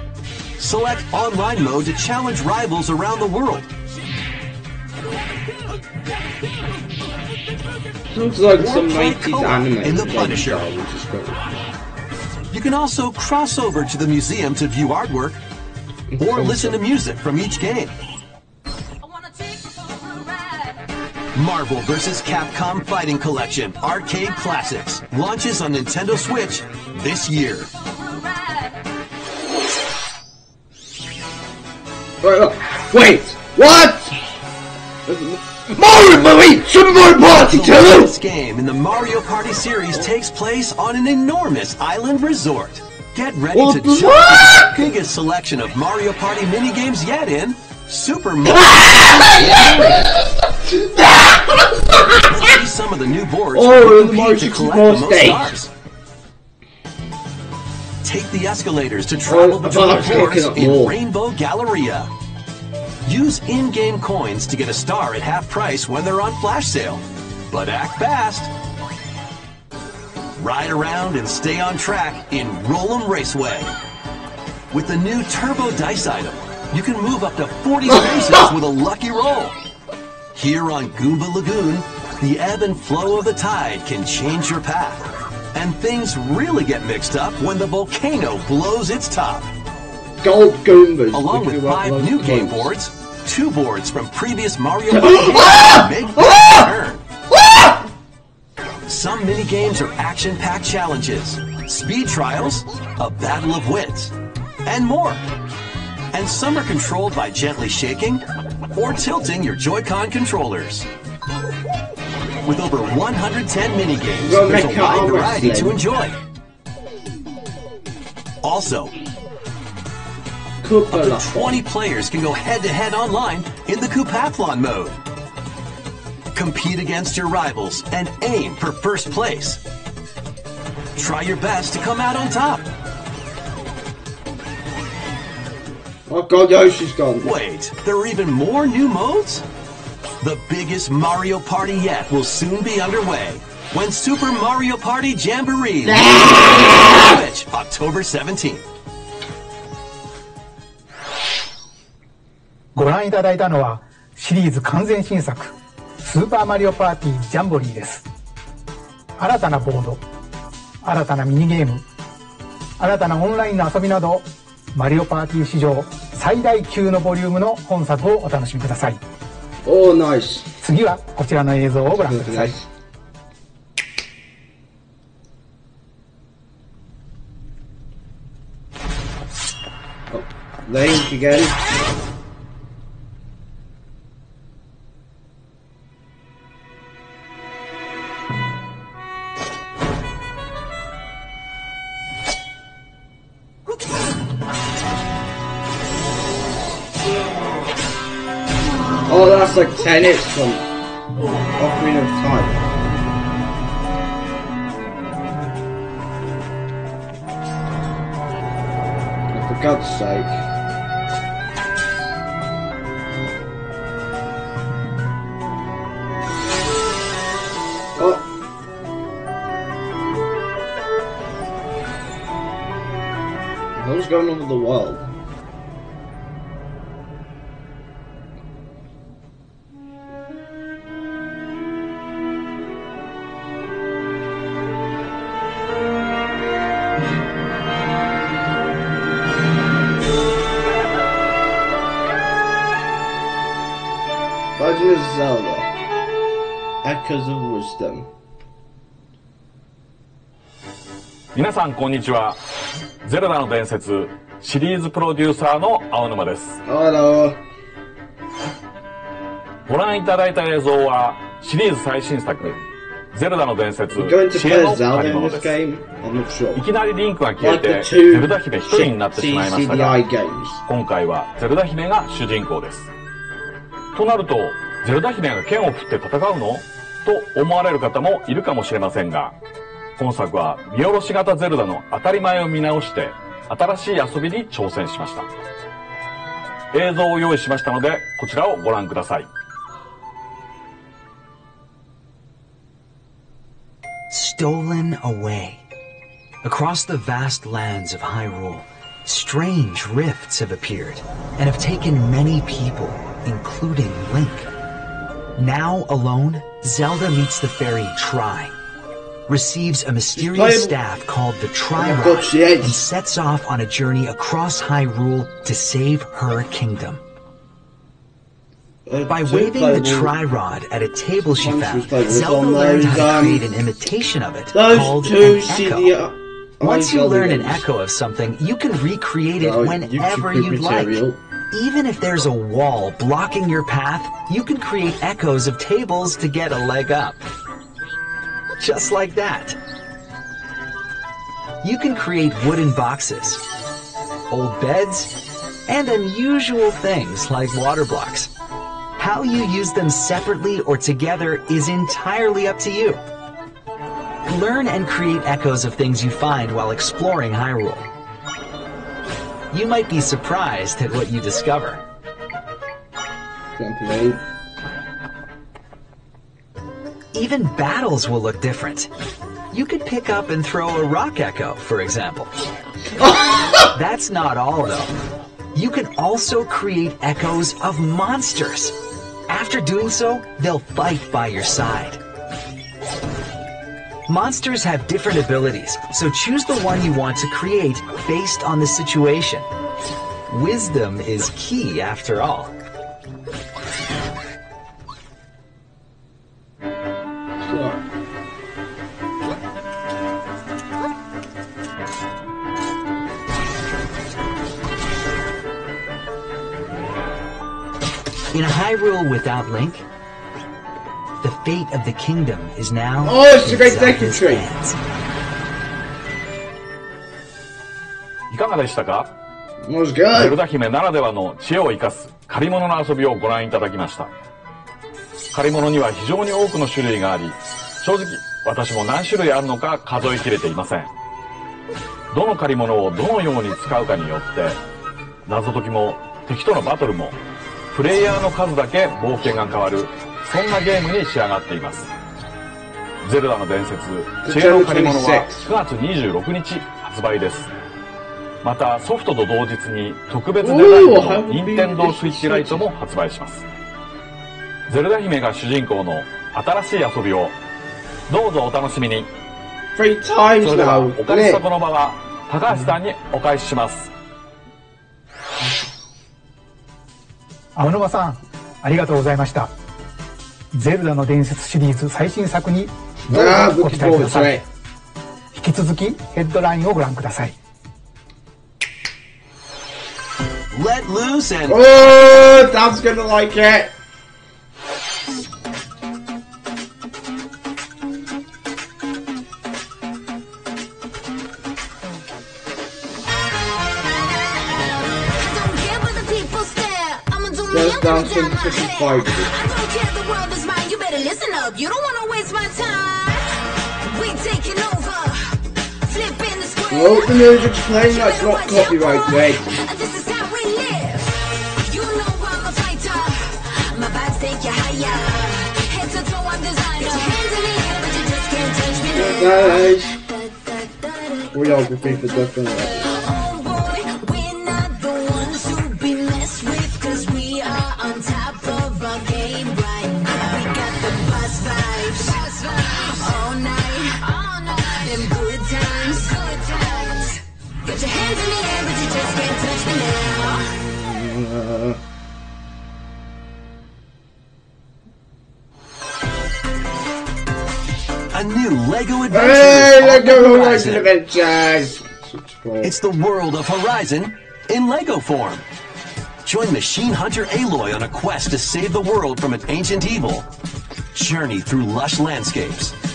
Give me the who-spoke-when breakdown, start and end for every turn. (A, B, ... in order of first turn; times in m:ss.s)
0:00.6-0:03.7 A
0:08.1-0:11.5 B
0:08.5-0:10.7 A
0:12.5-0:15.4 A
0:16.1-0:16.8 B
0:16.2-0:17.9 A
0:19.0-0:20.5 C
0:21.3-0:27.7 A
0:32.2-0:34.1 B
0:35.1-0:38.1 B
0:37.3-0:50.0 A
0:43.5-0:44.9 B
0:48.4-0:52.6 B
0:52.2-0:55.7 A
0:53.6-0:55.5 B
0:58.0-1:02.1 A
0:59.3-1:01.0 B
1:03.1-1:08.5 A
1:10.4-1:13.7 A
1:14.7-1:19.6 A
1:20.4-1:29.5 A
1:30.2-1:32.7 B
1:31.1-1:37.0 A
1:34.9-1:36.7 B
1:37.3-1:37.9 B
1:38.9-1:44.1 A
1:44.6-1:45.2 A
1:46.1-1:50.9 A
1:52.4-1:56.2 A
1:54.2-1:55.8 B
1:58.4-1:58.9 A
2:00.6-2:01.6 B
2:00.9-2:05.0 A
2:06.3-2:09.6 A
2:11.0-2:12.7 A
2:16.1-2:17.4 B
2:17.2-2:19.4 A
2:20.2-2:28.6 A
2:25.8-2:27.2 B
2:32.8-2:38.1 D
2:39.2-2:40.0 D
2:40.8-2:41.8 D
2:42.8-2:49.0 D
2:49.6-2:50.5 B
2:50.6-2:52.5 D
2:52.0-2:52.7 B
3:00.1-3:01.6 B
3:19.1-3:20.6 B
3:21.6-3:22.7 B
3:29.3-3:30.4 B
3:38.0-3:38.3 B
3:43.8-3:45.0 B
4:04.6-4:05.7 B
4:06.8-4:08.1 B
4:11.4-4:12.4 E
4:13.0-4:16.6 E
4:16.6-4:17.4 B
4:19.7-4:22.6 E
4:23.1-4:25.6 E
4:23.9-4:26.7 B
4:26.6-4:30.0 E
4:27.4-4:30.6 B
4:30.7-4:32.9 E
4:33.9-4:39.4 E
4:40.0-4:45.3 E
4:46.7-4:49.3 E
4:54.1-4:55.6 F
4:56.4-5:04.5 F
5:05.4-5:08.6 F
5:09.3-5:17.0 F
5:10.2-5:10.8 B
5:11.8-5:12.8 B
5:18.9-5:20.2 B
5:19.1-5:26.0 F
5:21.4-5:23.5 B
5:24.5-5:27.6 B
5:26.6-5:37.2 F
5:29.4-5:31.2 B
5:38.6-5:39.6 F
5:41.6-5:43.4 F
5:44.3-5:45.1 F
5:45.7-5:48.3 F
5:49.0-5:53.0 F
5:54.3-5:57.9 F
5:59.5-6:01.8 F
6:03.6-6:04.2 B
6:07.1-6:08.9 F
6:09.5-6:12.4 F
6:13.0-6:13.7 B
6:13.7-6:14.9 F
6:15.5-6:18.8 F
6:19.3-6:22.0 F
6:24.1-6:29.5 F
6:30.3-6:32.5 F
6:37.4-6:37.8 B
6:48.3-6:49.9 F
6:51.2-6:54.8 F
6:53.0-6:54.5 B
6:58.3-6:59.1 E
6:59.6-7:00.4 B
7:00.1-7:04.1 E
7:05.3-7:10.9 E
7:12.1-7:14.6 E
7:15.3-7:17.2 E
7:17.7-7:21.9 E
7:23.0-7:27.5 E
7:24.2-7:25.5 B
7:28.4-7:33.4 E
7:30.4-7:32.7 B
7:34.7-7:37.4 E
7:38.1-7:39.1 E
7:39.8-7:41.4 B
7:40.4-7:43.9 E
7:47.6-7:49.5 D
7:50.5-7:54.4 D
7:53.1-7:54.5 B
7:55.3-7:57.4 D
8:00.5-8:01.6 A
8:01.5-8:03.8 B
8:15.1-8:23.3 C
8:17.5-8:19.4 B
8:23.8-8:41.5 C
8:26.7-8:29.5 B
8:38.9-8:39.9 B
8:41.3-8:42.9 B
8:42.6-9:00.5 C
9:00.6-9:01.8 B
9:08.1-9:10.9 A
9:09.1-9:12.7 B
9:12.6-9:15.4 A
9:16.2-9:20.3 A
9:20.9-9:22.7 A